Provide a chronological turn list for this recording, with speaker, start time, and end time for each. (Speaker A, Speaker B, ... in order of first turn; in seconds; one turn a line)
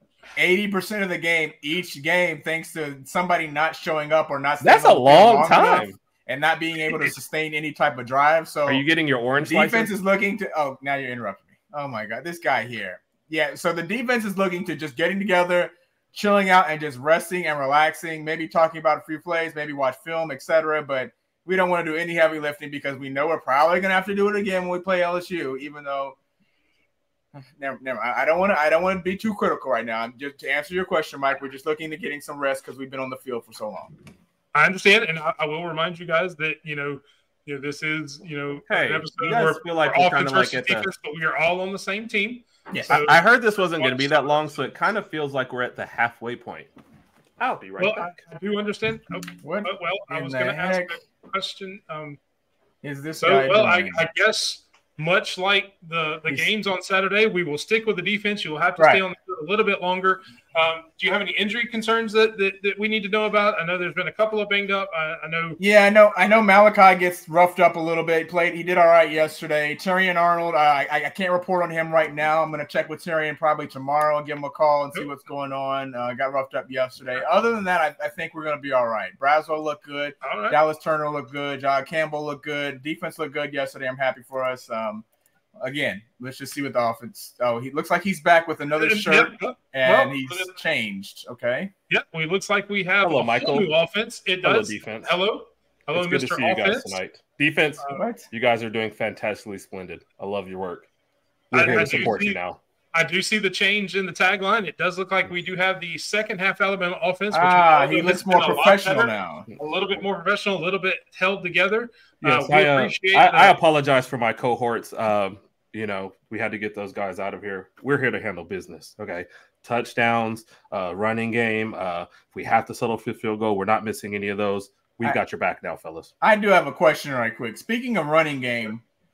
Speaker A: 0.4-8.8
Speaker B: 4.6-6.0
Speaker B: 8.7-9.9
Speaker A: 9.4-26.1
Speaker A: 27.3-33.9
Speaker C: 34.5-44.6
Speaker B: 38.7-40.9
Speaker A: 42.7-43.0
Speaker B: 42.9-46.7
Speaker B: 47.4-48.2
Speaker C: 47.8-52.2
Speaker A: 49.4-51.0
Speaker A: 52.8-54.0
Speaker C: 53.2-65.6
Speaker A: 58.8-59.0
Speaker A: 65.6-85.0
Speaker C: 80.2-80.6
Speaker A: 85.6-91.7
Speaker C: 88.7-90.5
Speaker C: 91.9-97.0
Speaker B: 93.0-93.7
Speaker B: 94.4-95.1
Speaker B: 95.9-100.9
Speaker A: 97.9-98.3
Speaker B: 101.5-102.6
Speaker C: 101.5-102.4
Speaker A: 101.6-102.0
Speaker C: 102.9-113.6
Speaker A: 107.3-109.5
Speaker B: 112.2-126.1
Speaker A: 126.2-128.8